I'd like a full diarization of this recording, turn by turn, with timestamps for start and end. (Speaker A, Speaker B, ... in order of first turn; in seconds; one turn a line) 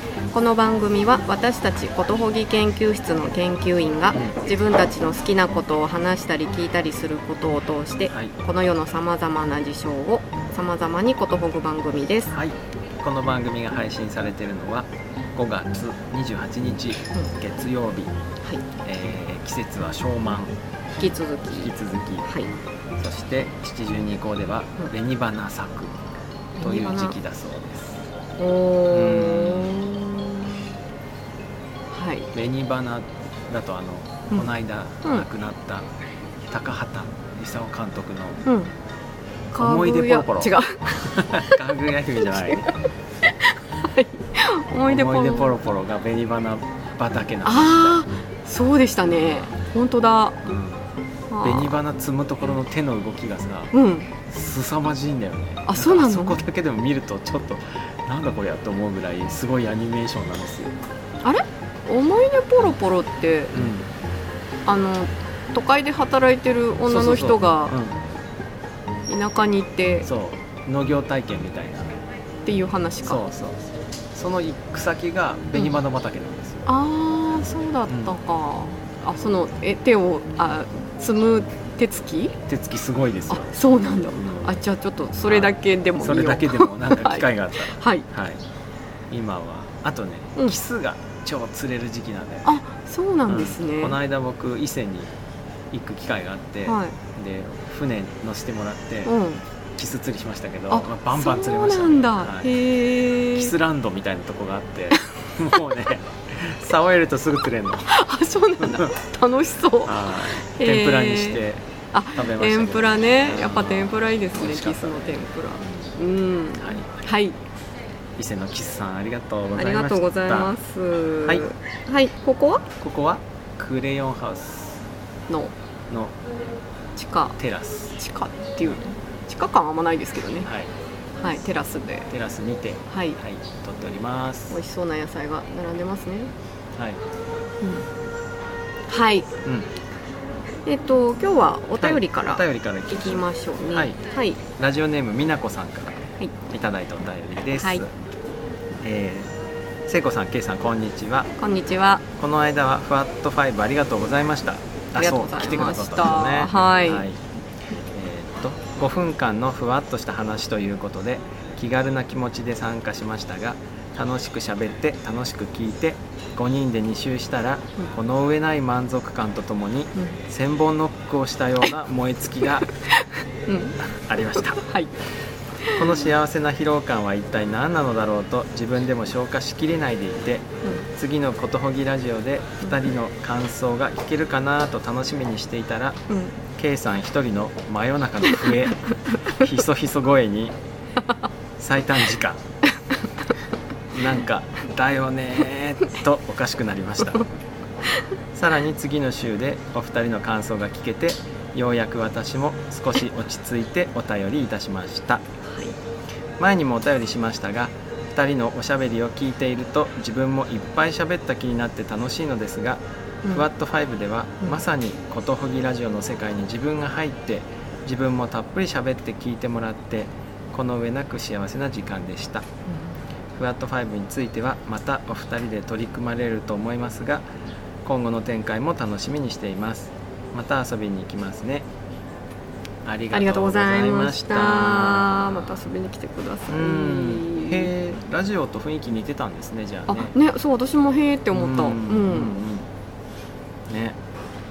Speaker A: 0.3-12.3
Speaker B: 12.3-18.2
Speaker B: 18.9-20.6
Speaker A: 21.0-21.7
Speaker B: 21.6-22.3
Speaker A: 22.3-22.5
Speaker B: 23.0-25.9
Speaker A: 26.6-27.2
Speaker B: 26.6-28.0
Speaker A: 28.4-30.6
Speaker B: 28.9-29.8
Speaker A: 31.9-32.3
Speaker B: 32.3-35.9
Speaker B: 36.5-38.4
Speaker A: 38.5-38.7
Speaker A: 39.5-41.6
Speaker B: 39.6-40.5
Speaker B: 41.0-42.7
Speaker A: 42.2-42.7
Speaker A: 43.3-45.5
Speaker B: 44.9-48.0
Speaker A: 47.4-50.4
Speaker B: 49.1-49.5
Speaker B: 50.5-50.8
Speaker A: 51.3-51.8
Speaker B: 51.4-53.7
Speaker A: 53.7-54.1
Speaker B: 54.3-60.8
Speaker A: 55.6-56.4
Speaker A: 61.2-63.6
Speaker B: 63.5-63.9
Speaker A: 64.7-67.8
Speaker B: 66.9-68.0
Speaker A: 69.1-70.1
Speaker B: 70.0-72.0
Speaker A: 72.5-73.2
Speaker B: 73.0-76.7
Speaker A: 76.7-82.4
Speaker B: 77.9-78.2
Speaker B: 82.5-83.6
Speaker A: 83.3-88.1
Speaker B: 84.1-84.6
Speaker B: 85.2-88.4
Speaker B: 89.1-92.5
Speaker A: 92.5-94.0
Speaker B: 93.3-95.1
Speaker B: 95.7-99.1
Speaker A: 96.7-97.0
Speaker A: 99.0-99.4
Speaker B: 99.8-102.5
Speaker A: 100.7-103.5
Speaker B: 103.3-107.9
Speaker A: 107.9-117.4
Speaker B: 108.6-108.9
Speaker B: 109.9-116.0
Speaker B: 116.6-116.9
Speaker B: 118.2-120.5
Speaker A: 119.6-122.7
Speaker B: 122.8-124.8
Speaker A: 125.3-125.5
Speaker B: 125.9-126.2
Speaker A: 127.0-127.4
Speaker B: 127.4-128.0
Speaker A: 128.0-130.5
Speaker B: 130.4-130.7
Speaker A: 131.2-132.1
Speaker B: 132.1-134.6
Speaker A: 132.9-133.2
Speaker A: 134.5-136.3
Speaker A: 138.9-139.3
Speaker B: 139.4-139.7
Speaker A: 140.7-144.4
Speaker B: 141.8-144.0
Speaker B: 144.6-146.0
Speaker B: 146.5-147.9
Speaker A: 147.5-147.8
Speaker B: 148.8-149.3
Speaker B: 149.9-151.3
Speaker A: 151.4-152.0
Speaker B: 152.2-157.2
Speaker A: 154.9-157.1
Speaker B: 157.9-172.7
Speaker A: 172.7-173.8
Speaker B: 173.8-174.6
Speaker A: 174.4-174.9
Speaker A: 175.6-175.9
Speaker B: 175.8-186.0
Speaker A: 186.1-186.4
Speaker B: 186.6-188.8
Speaker A: 188.3-189.2
Speaker B: 189.3-190.6
Speaker B: 191.6-192.4
Speaker B: 193.9-197.3
Speaker B: 198.3-205.2
Speaker A: 205.5-205.8
Speaker B: 206.4-212.8
Speaker B: 213.3-222.4
Speaker A: 222.7-223.0
Speaker B: 223.4-227.3
Speaker B: 227.8-231.7
Speaker B: 232.8-235.5
Speaker A: 233.1-237.7
Speaker B: 236.5-240.1
Speaker A: 239.9-242.4
Speaker B: 241.3-242.7
Speaker B: 243.7-244.0